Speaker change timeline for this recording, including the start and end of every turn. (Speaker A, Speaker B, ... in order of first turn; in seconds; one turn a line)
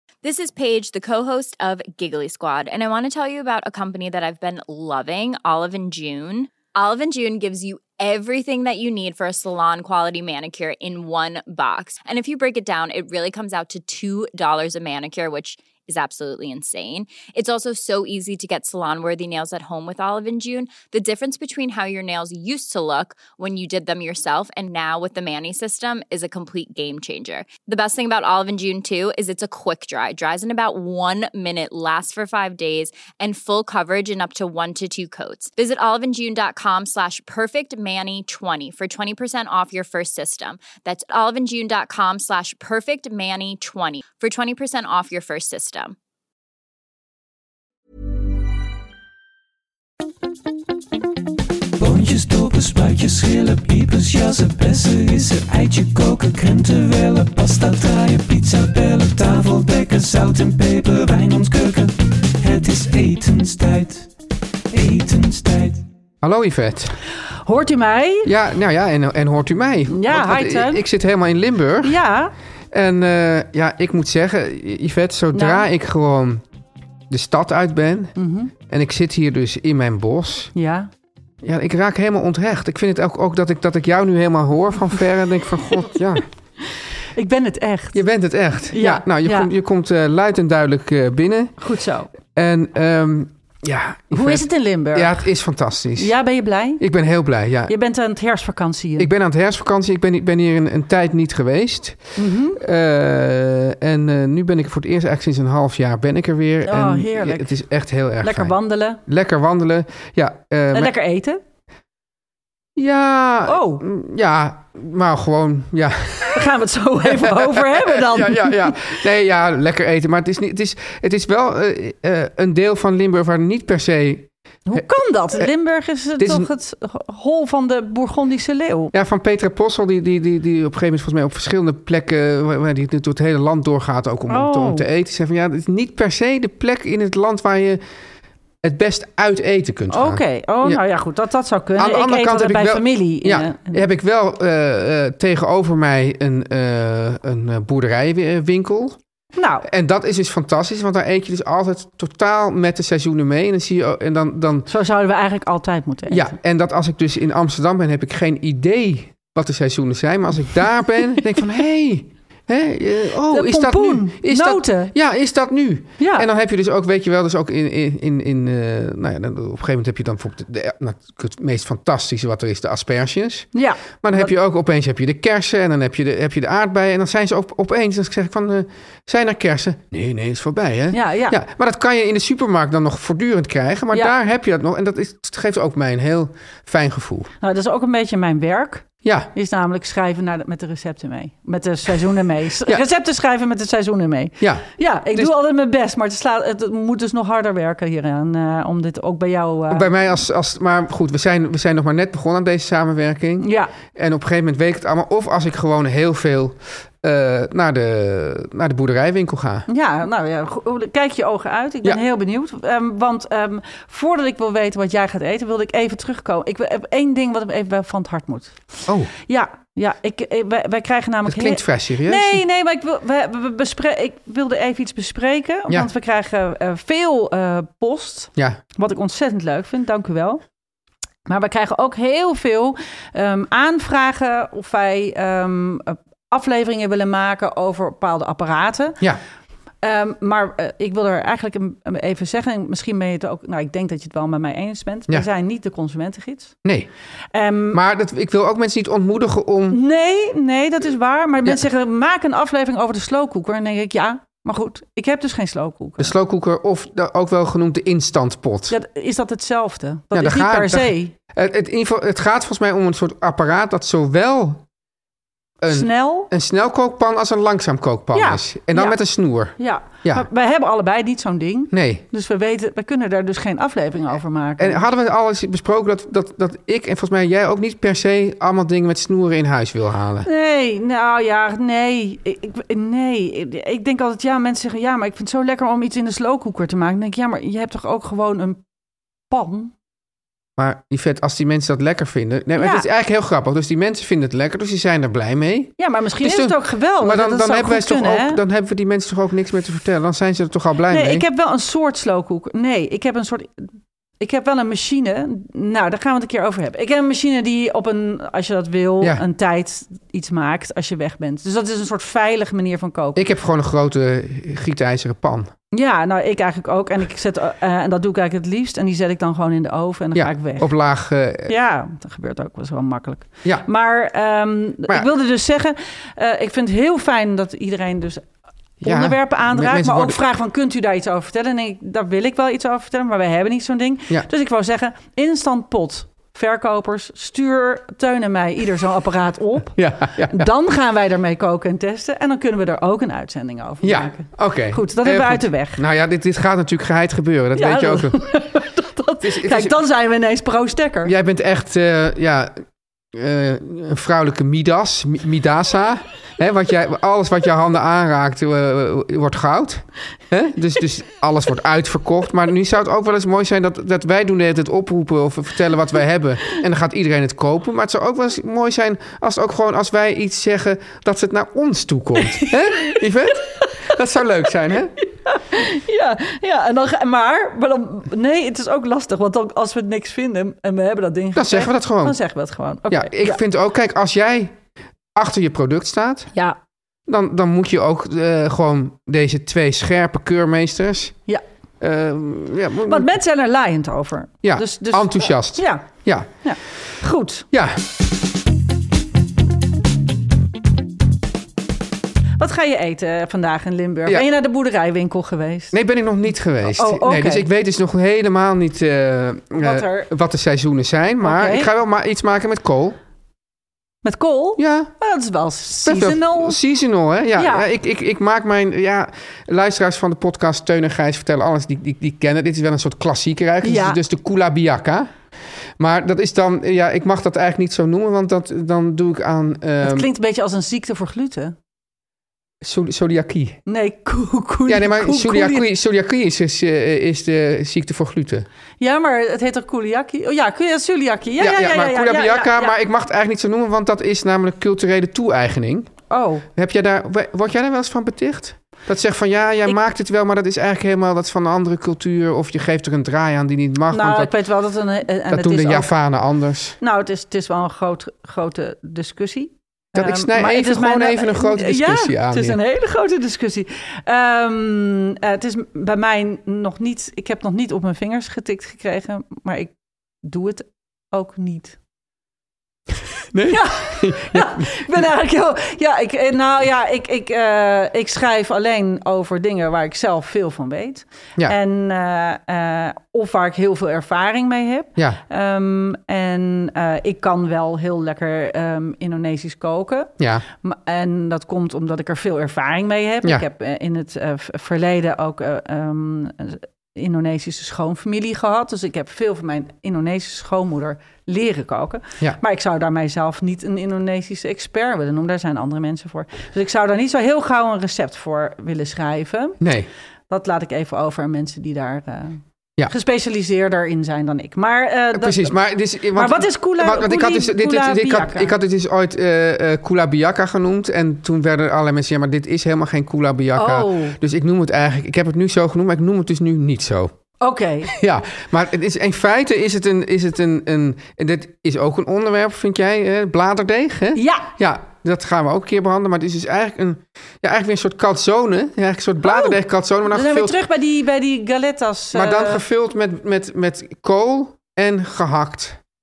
Speaker A: 0.2-45.9
Speaker B: 51.8-64.1
Speaker B: 64.7-65.8
Speaker C: 66.2-66.9
Speaker D: 67.4-68.3
Speaker C: 68.2-72.0
Speaker D: 69.9-70.8
Speaker D: 71.8-72.3
Speaker C: 72.7-76.4
Speaker D: 75.3-75.7
Speaker C: 77.1-80.5
Speaker D: 78.2-78.5
Speaker D: 80.5-80.9
Speaker C: 81.4-86.2
Speaker D: 87.1-88.0
Speaker C: 87.9-91.5
Speaker D: 88.7-89.5
Speaker D: 91.6-92.1
Speaker C: 92.2-96.1
Speaker D: 94.1-95.3
Speaker D: 96.0-96.8
Speaker C: 96.8-97.7
Speaker D: 97.7-99.1
Speaker C: 99.0-110.9
Speaker D: 102.2-102.6
Speaker D: 106.6-107.6
Speaker D: 108.2-109.0
Speaker D: 110.7-111.4
Speaker C: 112.8-116.5
Speaker D: 113.5-113.8
Speaker D: 116.3-118.9
Speaker C: 117.0-124.9
Speaker D: 124.7-128.9
Speaker C: 126.2-126.5
Speaker C: 128.9-137.8
Speaker D: 134.3-134.9
Speaker C: 138.6-140.8
Speaker D: 139.9-143.8
Speaker C: 141.8-149.0
Speaker D: 149.3-149.7
Speaker C: 149.6-154.7
Speaker D: 154.7-156.3
Speaker C: 156.1-173.5
Speaker D: 163.3-164.9
Speaker D: 166.0-166.3
Speaker D: 173.5-174.3
Speaker C: 174.0-187.3
Speaker D: 180.9-181.3
Speaker D: 187.4-199.9
Speaker C: 189.0-189.3
Speaker C: 194.4-195.3
Speaker C: 199.7-209.7
Speaker D: 203.4-203.7
Speaker D: 209.7-230.4
Speaker C: 221.2-222.4
Speaker D: 231.2-239.0
Speaker D: 239.8-246.6
Speaker D: 247.3-247.8
Speaker C: 247.7-249.8
Speaker D: 249.7-256.1
Speaker C: 256.0-258.7
Speaker D: 258.7-261.1
Speaker C: 260.1-264.6
Speaker C: 265.6-270.2
Speaker D: 265.7-266.3
Speaker D: 268.1-269.0
Speaker D: 269.6-274.9
Speaker C: 271.7-272.0
Speaker C: 274.6-280.3
Speaker D: 280.2-288.6
Speaker D: 289.3-289.7
Speaker C: 290.6-301.2
Speaker D: 292.6-292.9
Speaker D: 295.8-298.4
Speaker D: 300.9-313.2
Speaker C: 313.1-315.5
Speaker D: 315.7-320.7
Speaker C: 320.1-321.5
Speaker D: 321.5-328.3
Speaker D: 328.8-345.8
Speaker C: 328.8-330.2
Speaker C: 339.7-340.5
Speaker C: 343.8-348.2
Speaker D: 347.5-351.1
Speaker C: 349.2-349.8
Speaker C: 351.0-352.6
Speaker C: 353.1-374.9
Speaker D: 372.3-373.7
Speaker D: 375.0-383.4
Speaker C: 381.3-382.2
Speaker C: 382.9-384.6
Speaker C: 385.1-386.3
Speaker C: 387.1-391.1
Speaker C: 391.8-393.1
Speaker D: 392.8-395.9
Speaker C: 394.4-396.3
Speaker D: 396.4-397.5
Speaker C: 397.5-397.8
Speaker D: 402.4-405.7
Speaker C: 405.7-413.0
Speaker D: 406.6-407.5
Speaker D: 409.6-410.1
Speaker D: 411.2-411.7
Speaker D: 414.0-416.6
Speaker C: 414.6-414.9
Speaker C: 415.8-425.1
Speaker D: 417.4-417.7
Speaker D: 423.6-424.0
Speaker C: 425.8-430.1
Speaker D: 429.8-431.5
Speaker C: 432.6-433.6
Speaker D: 433.7-435.7
Speaker C: 434.7-438.4
Speaker D: 438.8-442.7
Speaker C: 441.4-445.9
Speaker D: 446.1-446.5
Speaker C: 446.5-454.3
Speaker D: 453.9-455.9
Speaker C: 455.3-456.8
Speaker D: 456.8-471.8
Speaker C: 459.9-462.6
Speaker C: 473.3-474.8
Speaker D: 473.5-509.6
Speaker C: 490.2-490.4
Speaker C: 509.6-509.9
Speaker D: 510.3-515.5
Speaker C: 515.1-527.1
Speaker D: 516.1-518.5
Speaker D: 523.5-524.2
Speaker D: 527.4-527.9
Speaker C: 527.9-540.6
Speaker D: 534.1-534.5
Speaker D: 539.2-539.6
Speaker D: 540.1-542.6
Speaker C: 542.1-545.8